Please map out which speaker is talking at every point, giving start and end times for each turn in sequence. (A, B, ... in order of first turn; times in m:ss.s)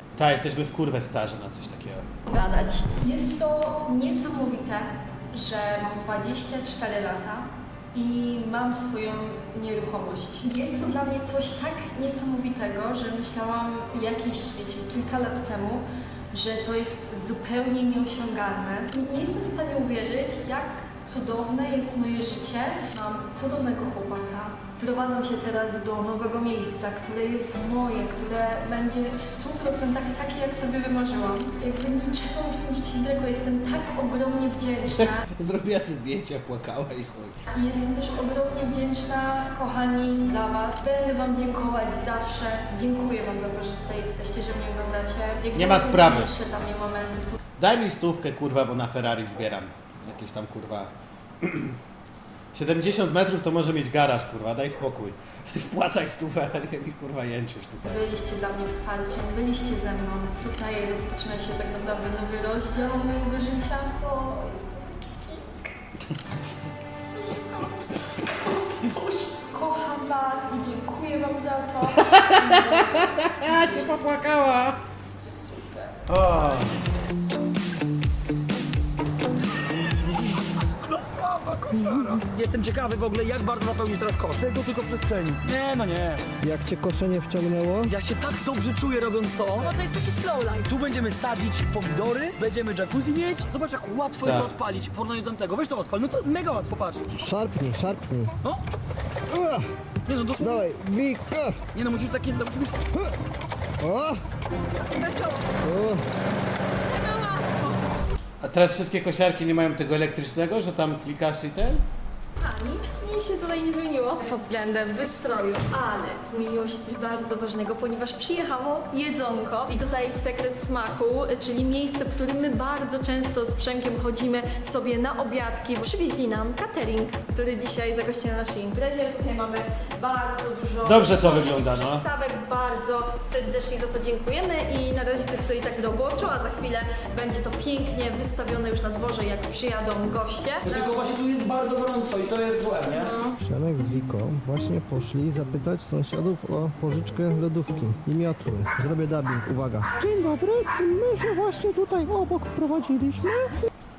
0:00.2-0:02.0 A
0:02.3-0:35.2 B
0:35.0-0:37.4 A
0:37.5-0:47.4 B
0:45.5-0:46.3 A
0:47.6-0:51.8 A
0:52.5-0:58.0 A
0:57.8-1:05.6 B
1:07.1-1:13.8 B
1:12.0-1:14.8 A
1:15.3-1:16.0 B
1:16.1-1:16.7 A
1:20.0-1:26.2 C
1:26.4-1:27.9 D
1:27.9-1:29.7 C
1:29.6-1:30.7 B
1:30.6-1:37.0 C
1:37.1-1:38.3 D
1:39.3-1:39.6 D
1:40.1-1:40.6 C
1:40.4-1:41.6 D
1:41.7-1:42.8 C
1:43.8-1:44.2 D
1:45.6-1:46.0 D
1:46.9-1:47.8 B
1:48.4-1:51.8 A
1:52.4-2:20.9 B
2:10.8-2:12.0 A
2:20.6-2:23.2 C
2:22.9-2:23.4 B
2:23.4-2:33.5 D